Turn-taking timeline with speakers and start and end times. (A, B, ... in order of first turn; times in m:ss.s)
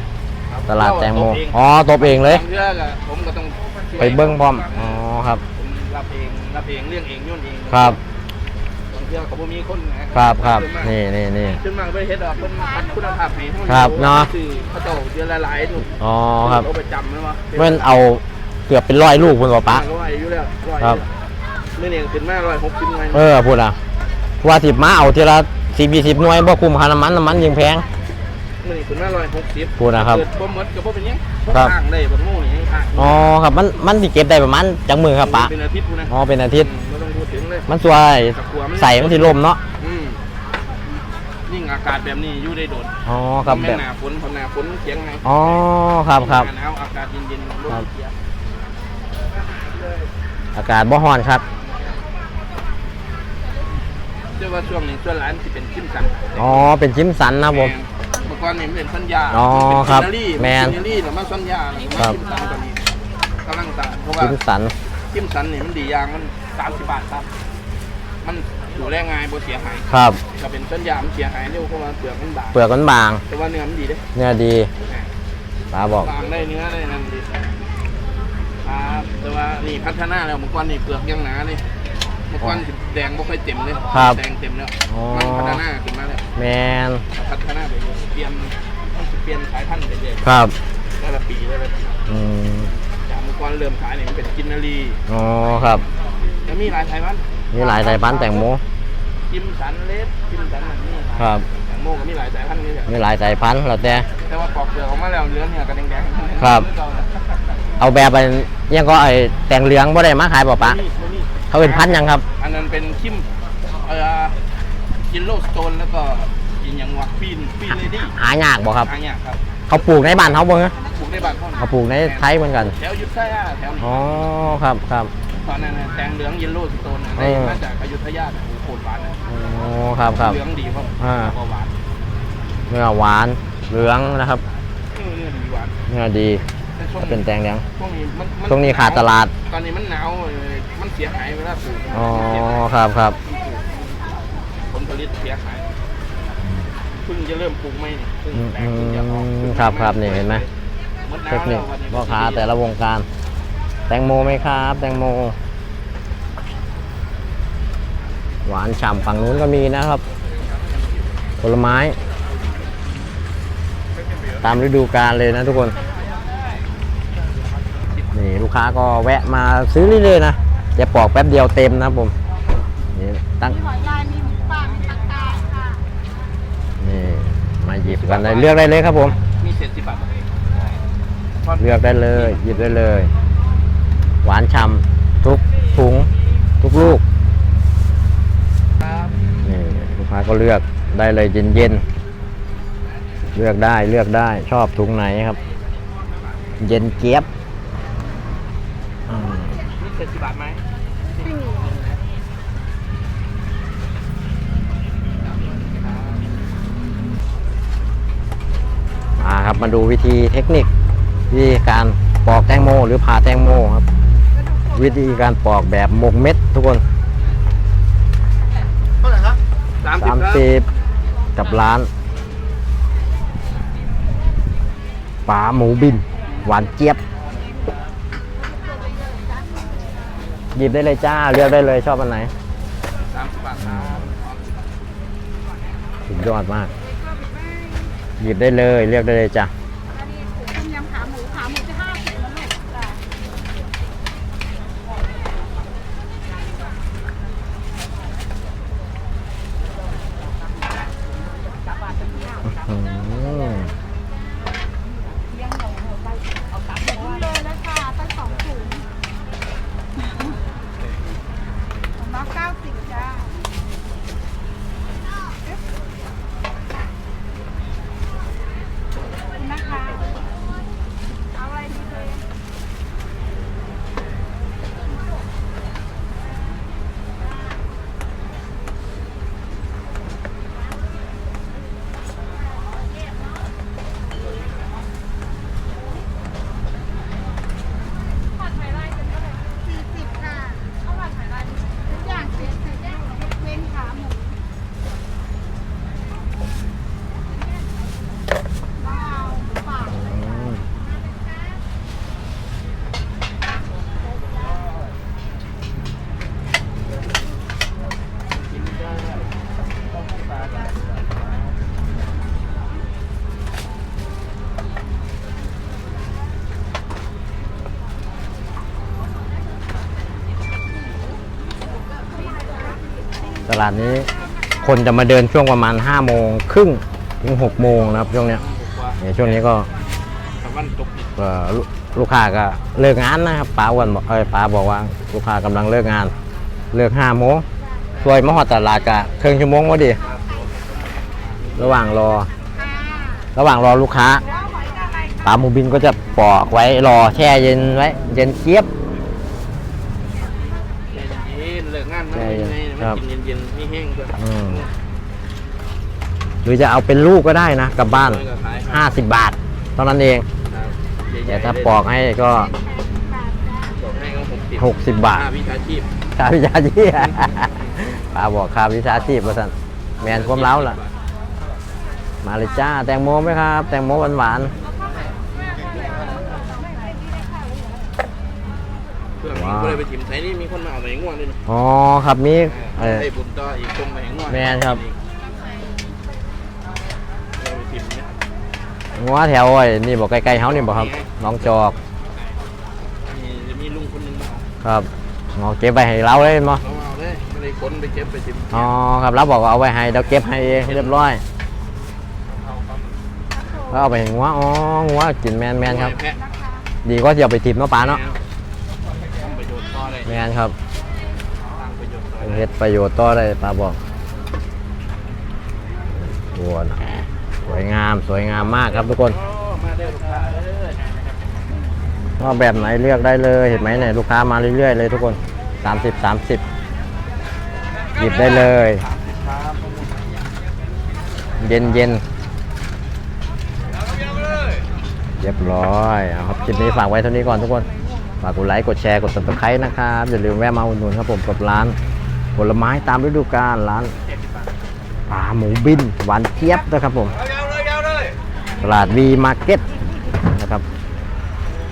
0:00.5-0:05.0 A
0:00.7-0:02.4 B
0:04.0-0:05.4 B
0:05.5-0:08.0 A
0:07.7-0:08.0 B
0:08.9-0:10.9 A
0:10.1-0:11.6 B
0:11.6-0:18.0 A
0:13.7-0:14.3 B
0:16.0-0:16.7 B
0:17.5-0:19.8 B
0:19.6-0:21.1 A
0:21.7-0:23.4 A
0:23.1-0:23.8 B
0:24.4-0:27.8 B
0:28.6-0:33.3 A
0:29.8-0:30.2 B
0:33.0-0:35.5 B
0:35.2-0:37.7 A
0:36.1-0:36.7 B
0:37.7-0:39.6 B
0:38.3-0:40.2 A
0:41.5-0:48.1 A
0:43.0-0:43.8 B
0:45.2-0:46.5 B
0:50.5-0:51.4 B
0:54.4-0:56.7 A
0:56.4-0:57.7 B
0:57.5-1:02.8 A
0:59.3-1:00.8 B
1:03.4-1:04.4 A
1:04.2-1:04.7 B
1:05.1-1:07.3 A
1:08.2-1:12.6 A
1:09.9-1:10.2 B
1:12.5-1:13.2 B
1:13.3-1:14.0 A
1:14.1-1:14.7 B
1:15.7-1:16.1 B
1:16.0-1:17.3 A
1:18.6-1:21.6 A
1:22.3-1:26.2 A
1:23.9-1:24.2 B
1:24.9-1:25.6 B
1:26.4-1:27.0 B
1:27.1-1:30.3 A
1:30.2-1:30.5 B
1:31.0-1:32.0 A
1:32.1-1:32.7 B
1:33.0-1:35.0 A
1:35.1-1:35.8 B
1:36.4-1:38.2 A
1:37.5-1:38.6 B
1:39.3-1:42.9 A
1:41.2-1:41.4 B
1:42.9-1:44.1 B
1:44.2-1:47.1 A
1:46.4-1:46.7 B
1:47.8-1:50.8 B
1:50.6-1:53.2 A
1:51.5-1:52.2 B
1:53.8-1:54.4 A
1:55.1-1:58.2 A
1:58.1-1:58.9 B
1:58.8-2:04.4 A
1:59.7-2:00.7 B
2:01.6-2:02.7 B
2:03.8-2:05.1 B
2:05.4-2:09.2 A
2:07.2-2:07.6 B
2:09.3-2:10.4 B
2:10.1-2:11.7 A
2:11.0-2:11.3 B
2:12.7-2:14.4 B
2:14.9-2:15.8 A
2:15.9-2:16.4 B
2:16.8-2:17.2 A
2:17.1-2:17.6 B
2:17.7-2:24.0 A
2:18.5-2:19.3 B
2:21.9-2:23.2 B
2:24.7-2:25.7 A
2:26.9-2:30.5 A
2:28.3-2:30.4 B
2:31.0-2:32.5 A
2:31.3-2:33.0 B
2:33.9-2:35.4 B
2:38.4-2:40.0 B
2:41.4-2:42.0 B
2:44.4-2:45.8 B
2:48.1-2:52.1 B
2:52.9-2:53.6 B
2:53.6-2:55.8 C
2:56.8-2:59.2 B
2:57.8-3:00.1 A
3:01.4-3:02.4 A
3:01.6-3:03.1 B
3:04.2-3:07.0 B
3:08.8-3:09.1 A
3:09.4-3:11.8 B
3:13.3-3:15.4 B
3:16.6-3:17.2 B
3:19.1-3:19.6 B
3:19.7-3:20.6 A
3:21.2-3:22.0 A
3:29.2-3:30.7 B
3:31.3-3:33.8 B
3:34.7-3:36.8 B
3:39.8-3:40.5 A
3:40.0-3:40.7 B
3:41.4-3:41.9 B
3:45.2-3:47.0 B
3:48.7-3:49.3 C
3:50.5-3:52.3 B
3:53.1-3:54.6 A
3:56.1-3:56.7 B
3:57.3-3:57.9 C
3:58.2-3:59.5 B
4:00.2-4:02.7 C
4:12.4-4:13.7 B
4:17.0-4:18.8 C
4:22.0-4:23.3 C
4:29.5-4:29.9 C
4:31.5-4:32.2 C
4:49.8-4:50.6 C
4:51.9-4:54.2 C
4:59.0-4:59.9 C
4:59.9-5:00.6 B
5:23.5-5:24.1 B
5:24.6-5:28.4 B
5:28.2-5:29.4 A
5:29.0-5:29.7 B
5:30.4-5:31.1 A
5:31.2-5:36.1 B
5:36.7-5:37.4 B
5:38.0-5:40.0 B
5:40.0-5:41.9 A
5:41.6-5:42.3 B
5:42.7-5:43.3 C
5:43.4-5:44.2 B
5:44.4-5:45.2 C
5:45.2-5:48.7 B
5:50.9-5:54.7 A
5:52.1-5:53.0 B
5:54.2-5:54.6 B
5:56.4-6:00.2 B
5:57.8-5:59.0 A
6:00.5-6:01.8 A
6:01.3-6:02.5 B
6:02.8-6:03.6 C
6:03.7-6:05.9 A
6:04.6-6:05.3 B
6:06.2-6:10.8 B
6:10.0-6:10.9 A
6:12.2-6:14.5 B
6:14.9-6:16.8 C
6:19.2-6:21.4 A
6:19.3-6:19.8 B
6:21.4-6:23.1 B
6:22.4-6:25.0 A
6:24.3-6:24.8 B
6:27.4-6:28.1 A
6:28.9-6:31.8 B
6:30.2-6:31.9 A
6:33.0-6:34.5 A
6:34.6-6:36.6 B
6:36.5-6:38.7 A
6:38.5-6:41.2 B
6:40.0-6:41.1 A
6:43.4-6:43.7 C
6:43.7-6:45.9 B
6:45.6-6:46.2 A
6:46.2-6:46.6 C
6:46.8-6:48.0 B
6:47.8-6:48.2 A
6:49.2-6:50.2 A
6:50.0-6:50.5 B
6:51.4-6:52.5 A
6:52.2-6:53.8 B
6:56.1-6:59.2 B
6:58.6-7:01.1 A
7:02.2-7:06.4 B
7:08.0-7:08.8 B
7:08.0-7:09.9 A
7:11.4-7:12.0 B
7:15.2-7:17.7 B
7:18.2-7:21.8 B
7:22.4-7:23.9 B
7:25.1-7:27.2 B
7:28.6-7:29.6 B
7:30.2-7:30.6 B